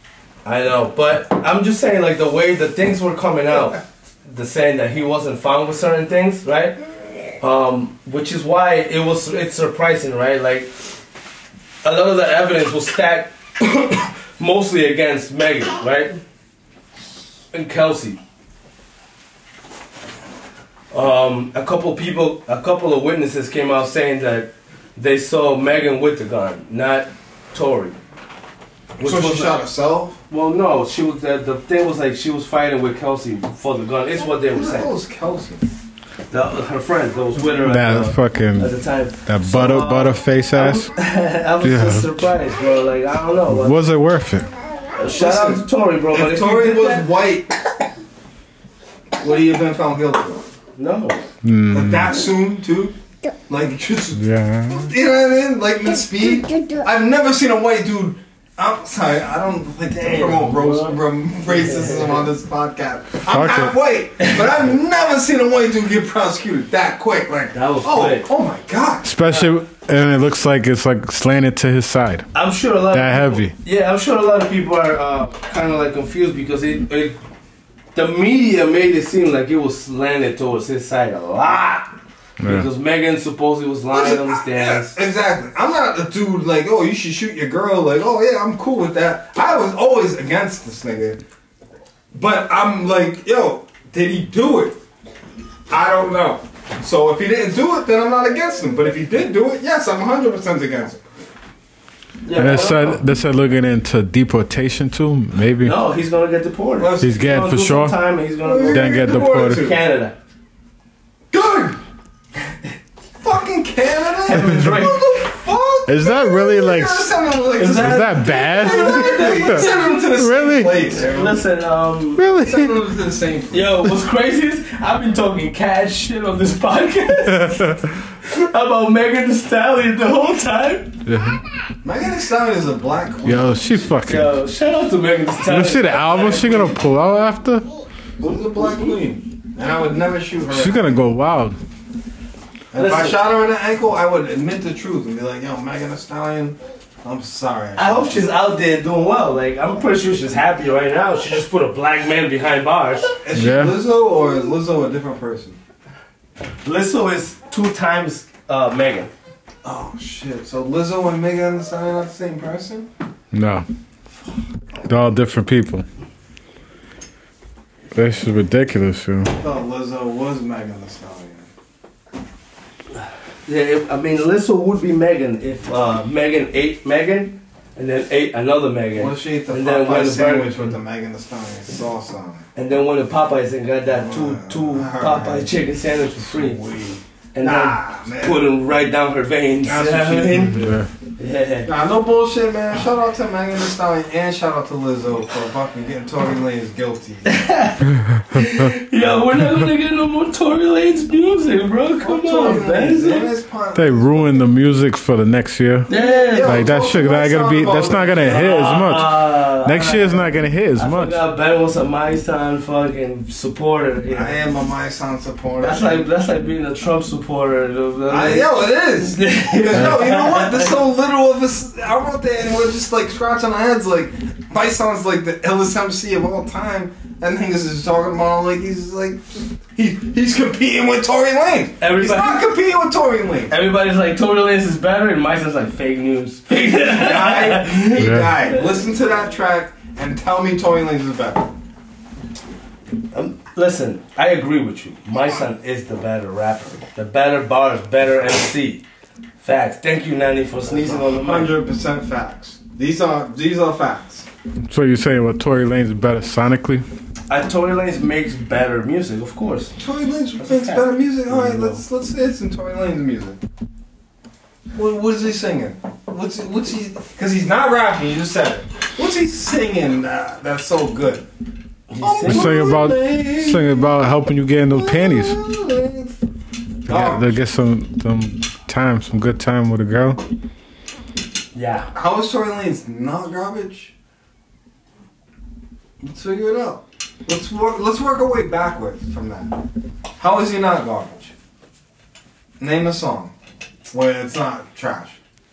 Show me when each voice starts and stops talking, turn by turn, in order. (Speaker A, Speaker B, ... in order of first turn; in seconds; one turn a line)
Speaker A: 0.5-6.8
Speaker A: 7.4-10.7
Speaker A: 11.8-16.2
Speaker A: 17.5-18.2
Speaker A: 20.9-28.0
Speaker B: 29.0-30.2
Speaker A: 29.0-29.6
Speaker A: 30.3-34.9
Speaker B: 34.5-35.7
Speaker A: 36.3-43.8
Speaker C: 37.6-38.7
Speaker C: 39.3-40.9
Speaker C: 41.6-42.1
Speaker C: 43.5-44.5
Speaker A: 45.0-47.1
Speaker B: 45.1-47.5
Speaker B: 49.2-50.4
Speaker A: 50.8-51.2
Speaker C: 51.4-52.2
Speaker B: 51.7-53.0
Speaker B: 53.5-69.1
Speaker C: 54.1-54.9
Speaker A: 60.0-62.3
Speaker C: 63.3-63.8
Speaker A: 64.2-64.6
Speaker A: 67.5-68.3
Speaker C: 69.0-72.3
Speaker A: 69.3-69.5
Speaker A: 72.3-77.2
Speaker C: 72.9-73.5
Speaker A: 78.0-85.0
Speaker C: 82.4-82.7
Speaker B: 83.9-91.2
Speaker B: 92.1-94.8
Speaker B: 95.7-101.0
Speaker A: 102.2-103.0
Speaker C: 102.3-105.8
Speaker A: 105.6-110.2
Speaker B: 106.8-107.2
Speaker C: 107.0-108.0
Speaker B: 108.4-109.8
Speaker C: 108.7-109.7
Speaker B: 111.3-111.8
Speaker B: 113.2-121.4
Speaker A: 114.3-115.1
Speaker C: 114.3-114.8
Speaker C: 115.9-117.1
Speaker A: 117.6-120.0
Speaker C: 117.7-120.9
Speaker A: 120.9-122.3
Speaker C: 122.2-122.8
Speaker B: 122.3-123.7
Speaker A: 123.5-131.0
Speaker C: 127.3-127.9
Speaker C: 131.1-131.4
Speaker B: 131.8-133.9
Speaker C: 133.2-134.3
Speaker A: 134.1-136.8
Speaker C: 135.5-137.7
Speaker B: 138.2-141.0
Speaker A: 138.2-139.0
Speaker C: 140.5-141.6
Speaker B: 142.7-148.2
Speaker A: 142.8-143.2
Speaker A: 147.8-153.1
Speaker B: 153.2-155.6
Speaker C: 153.3-153.8
Speaker A: 156.6-159.1
Speaker B: 159.6-162.9
Speaker C: 163.3-163.7
Speaker C: 164.9-165.8
Speaker C: 167.9-169.4
Speaker B: 169.4-171.5
Speaker A: 173.5-180.8
Speaker B: 179.0-182.4
Speaker A: 182.6-186.6
Speaker B: 183.9-185.6
Speaker B: 186.2-188.4
Speaker A: 187.3-191.7
Speaker B: 189.6-190.7
Speaker C: 190.5-190.9
Speaker B: 191.7-197.4
Speaker A: 197.2-203.3
Speaker C: 198.0-198.7
Speaker B: 202.0-204.5
Speaker C: 203.8-211.2
Speaker A: 205.9-206.7
Speaker B: 205.9-208.5
Speaker A: 208.1-214.4
Speaker B: 214.1-216.1
Speaker A: 215.6-220.8
Speaker B: 218.1-233.5
Speaker A: 231.8-232.5
Speaker A: 233.5-238.7
Speaker B: 236.6-241.5
Speaker C: 238.0-238.3
Speaker A: 243.1-248.8
Speaker A: 249.4-251.5
Speaker B: 250.7-254.3
Speaker C: 254.7-256.8
Speaker A: 257.3-259.8
Speaker B: 259.8-263.4
Speaker A: 260.4-261.8
Speaker B: 264.7-271.2
Speaker A: 271.9-272.6
Speaker B: 272.0-274.1
Speaker C: 272.2-275.4
Speaker B: 274.7-276.1
Speaker B: 276.9-277.4
Speaker C: 276.9-280.2
Speaker A: 281.5-281.9
Speaker B: 281.9-283.9
Speaker B: 286.0-289.5
Speaker B: 290.2-291.3
Speaker B: 292.6-293.3
Speaker B: 293.9-295.2